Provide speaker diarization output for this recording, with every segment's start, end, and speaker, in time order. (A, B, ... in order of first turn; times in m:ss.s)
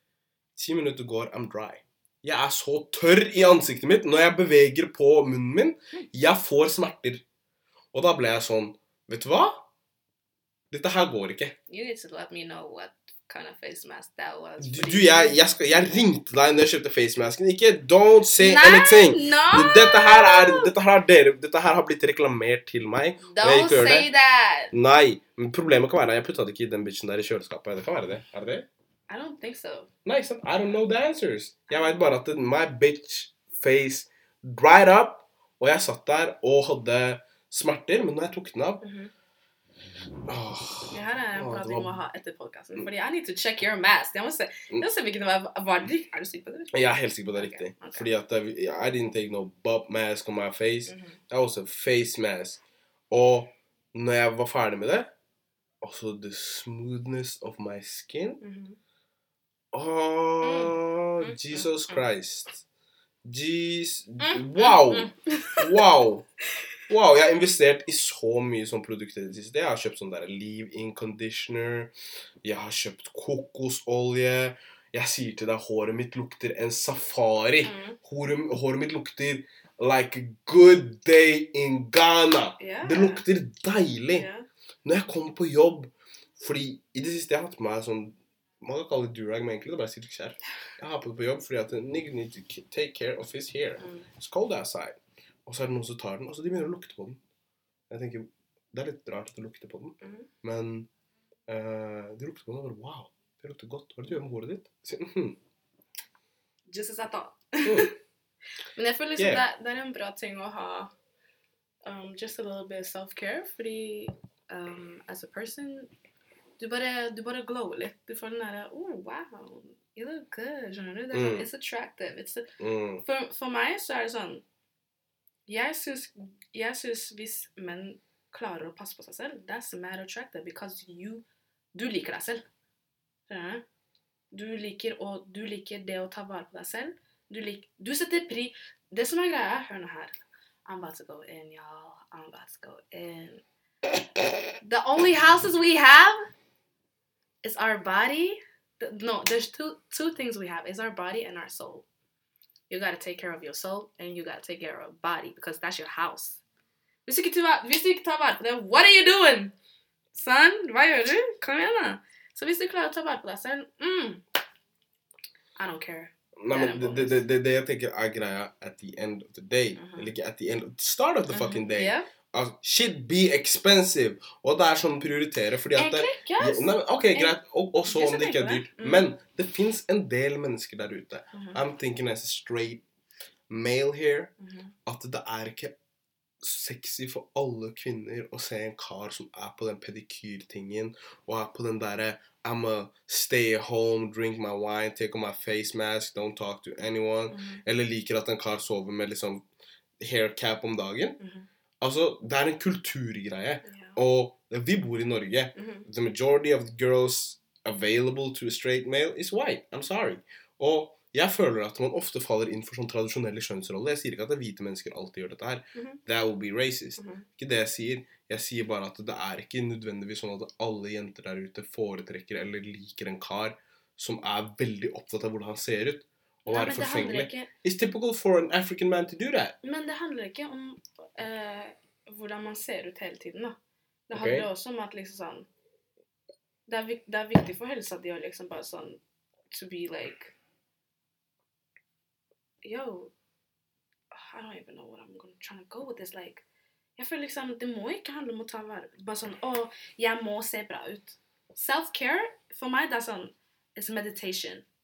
0:00.6-0:07.2 A
0:07.9-0:09.6 A
0:10.7-0:11.5 A
0:11.7-0:15.5 B
0:14.6-0:24.1 A
0:18.4-0:20.7 B
0:23.2-0:24.7 B
0:24.7-0:28.7 A
0:29.1-0:29.9 B
0:30.0-0:38.8 A
0:38.8-0:39.1 B
0:40.3-0:42.0 A
0:40.9-0:48.1 B
0:46.7-0:55.1 A
0:50.9-0:51.2 B
0:55.8-0:58.4 A
0:58.4-0:58.8 B
0:59.7-1:02.6 A
1:00.4-1:02.0 B
1:03.2-1:06.3 A
1:04.2-1:05.8 B
1:06.9-1:24.3 A
1:17.6-1:18.0 B
1:22.6-1:23.2 B
1:24.1-1:24.4 B
1:24.8-1:37.2 A
1:33.8-1:34.1 B
1:37.9-1:40.9 A
1:40.0-1:40.3 B
1:41.5-1:45.4 A
1:46.7-1:47.9 B
1:47.6-1:47.9 A
1:48.8-1:50.9 B
1:49.2-1:49.4 A
1:51.8-1:55.9 B
1:56.6-2:04.4 B
2:01.1-2:01.4 A
2:02.6-2:03.0 A
2:05.5-2:12.5 B
2:13.3-2:13.6 B
2:14.3-2:23.4 B
2:24.6-2:26.2 B
2:27.4-2:31.8 B
2:32.7-2:36.4 B
2:37.0-2:39.5 B
2:40.1-2:44.2 B
2:45.6-2:47.2 B
2:46.4-3:02.8 A
2:49.7-2:50.1 B
2:51.3-2:52.1 B
2:55.7-2:59.1 B
3:01.3-3:01.6 B
3:03.5-3:04.3 A
3:04.4-3:04.7 B
3:04.8-3:05.8 A
3:06.4-3:19.4 A
3:17.3-3:17.6 B
3:20.0-3:21.2 A
3:21.2-3:21.5 B
3:21.8-3:49.6 A
3:23.6-3:24.0 B
3:25.6-3:25.8 B
3:35.7-3:36.0 B
3:37.0-3:37.2 B
3:46.4-3:47.5 B
3:49.6-3:53.6 B
3:54.1-3:55.5 B
3:54.1-3:54.5 A
3:56.7-3:59.0 B
3:59.5-4:00.4 B
4:02.6-4:03.1 B
4:04.1-4:06.4 B
4:07.0-4:14.6 B